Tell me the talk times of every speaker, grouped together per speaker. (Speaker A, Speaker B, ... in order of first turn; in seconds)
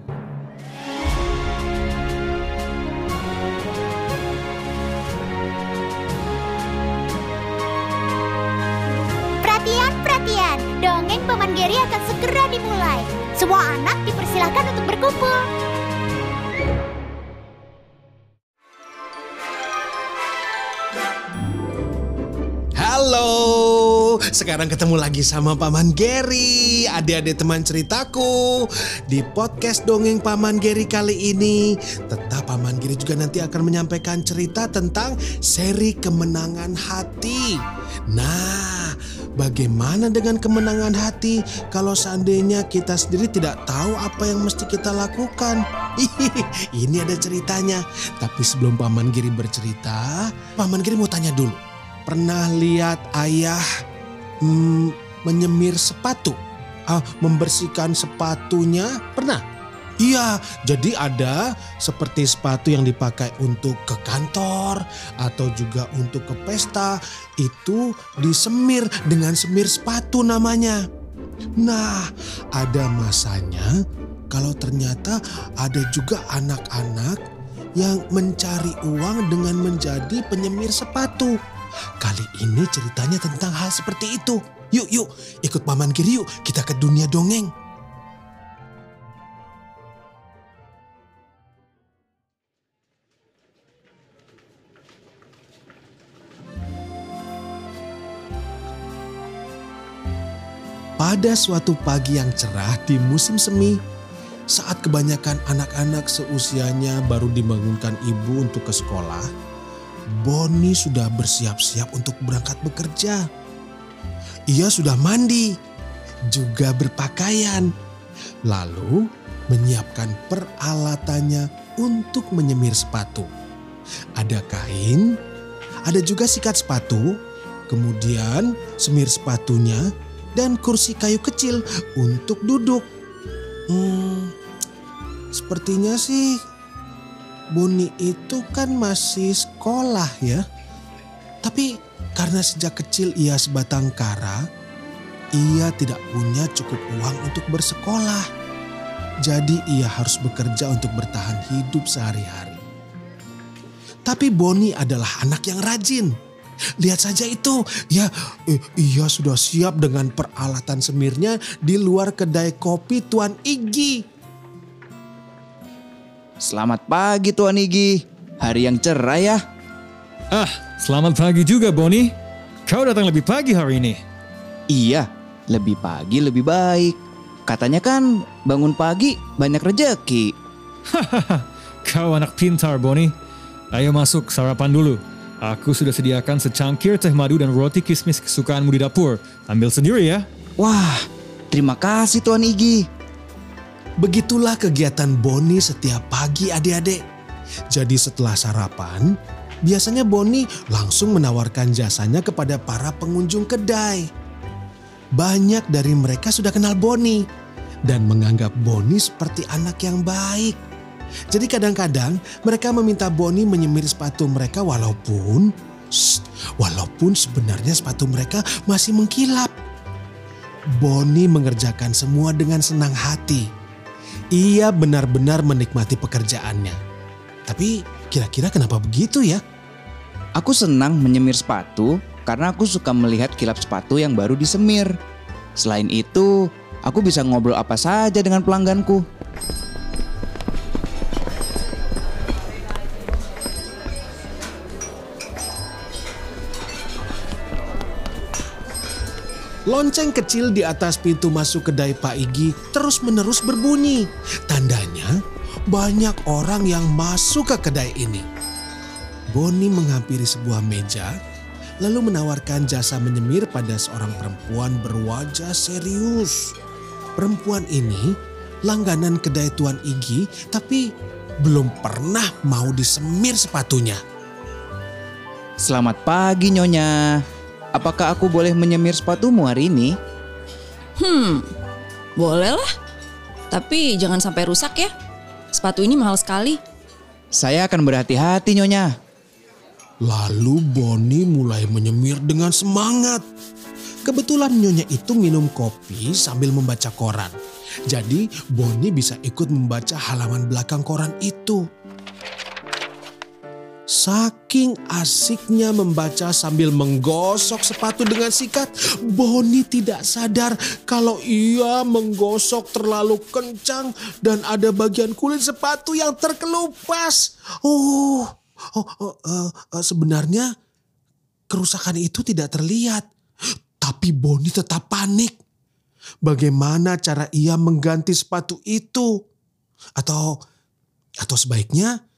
Speaker A: 9.4-15.5
Speaker B: 22.8-37.6, 38.1-53.6, 54.4-56.4, 56.9-59.4, 60.0-70.8, 71.6-73.7, 74.3-77.2, 77.8-81.3, 82.0-87.5, 101.0-103.8, 104.5-109.3, 110.1-113.2, 114.5-115.5, 116.3-117.7, 118.5-123.3, 124.2-125.2, 125.8-127.1, 127.7-132.8, 133.7-134.3, 135.3-136.4, 137.5-140.4, 141.4-144.4, 145.3-148.2, 149.2-152.6, 154.1-156.1, 156.8-164.0, 194.0-197.0, 197.7-199.1, 199.7-204.1, 205.2-207.2, 207.9-210.6, 211.3-219.5, 220.8-223.5, 224.3-226.8, 227.5-229.4, 249.7-255.1, 255.7-258.2, 259.3-261.1, 261.8-266.5, 267.2-268.1, 268.6-270.8, 271.4-274.0, 290.1-293.2, 294.1-297.4, 297.9-301.6, 303.9-320.5, 321.5-323.1, 323.8-325.4, 326.2-329.1, 330.0-330.4, 331.2-331.9
Speaker C: 166.4-169.4, 174.7-180.3, 190.6-192.8, 230.3-235.0, 235.6-239.0, 275.6-277.2, 277.7-279.9, 287.3-288.9
Speaker D: 170.3-172.1, 172.7-174.0, 180.9-183.1, 183.7-190.2
Speaker E: 281.0-281.5, 282.1-282.7, 283.5-284.9, 285.5-286.6